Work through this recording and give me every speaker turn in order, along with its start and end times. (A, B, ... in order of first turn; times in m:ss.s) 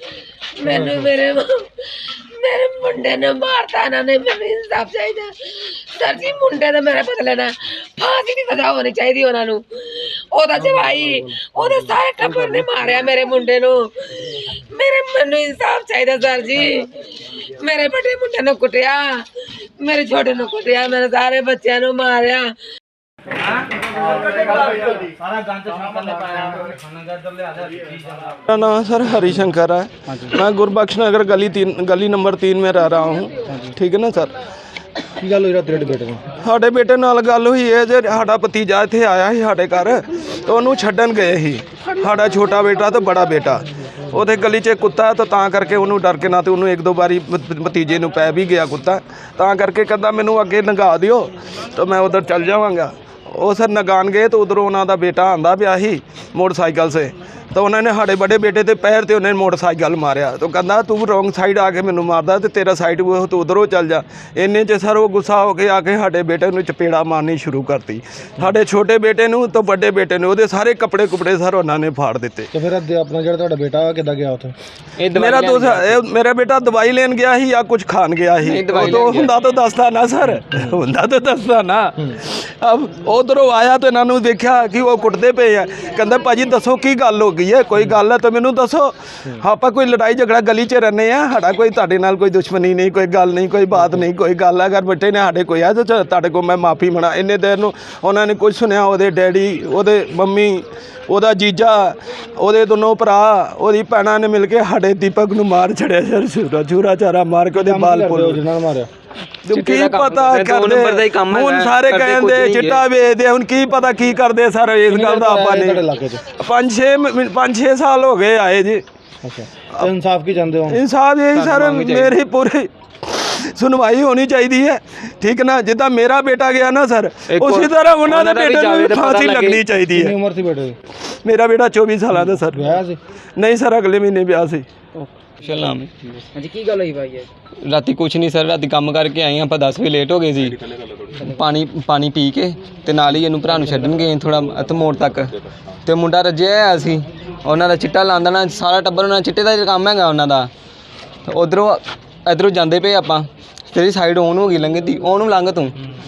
0:00.6-0:13.8 A
0:11.0-0:11.6 B
0:14.6-0:16.9 A
0:17.4-0:22.5 A
0:25.7-0:26.8 C
0:28.4-0:34.3 D
0:30.1-0:30.4 C
0:33.5-0:33.8 C
0:35.2-0:36.3 B
0:36.4-1:12.5 D
1:12.5-1:14.5 B
1:15.0-1:16.0 E
1:15.1-1:48.4 D
1:18.4-1:19.3 E
1:47.6-1:48.9 B
1:49.5-1:58.8 D
1:49.5-1:52.8 E
1:54.9-1:56.2 B
1:59.2-2:00.8 B
1:59.6-1:59.9 D
2:00.7-2:10.2 D
2:01.3-2:02.2 E
2:07.3-2:09.6 E
2:10.0-2:10.8 B
2:11.2-2:12.7 D
2:12.5-2:13.0 B
2:13.4-2:14.7 D
2:15.0-2:15.3 C
2:15.4-2:15.9 E
2:16.3-2:17.3 C
2:17.6-2:20.6 E
2:21.2-2:25.3 E
2:23.4-2:24.0 C
2:25.8-2:30.5 E
2:31.3-2:35.8 E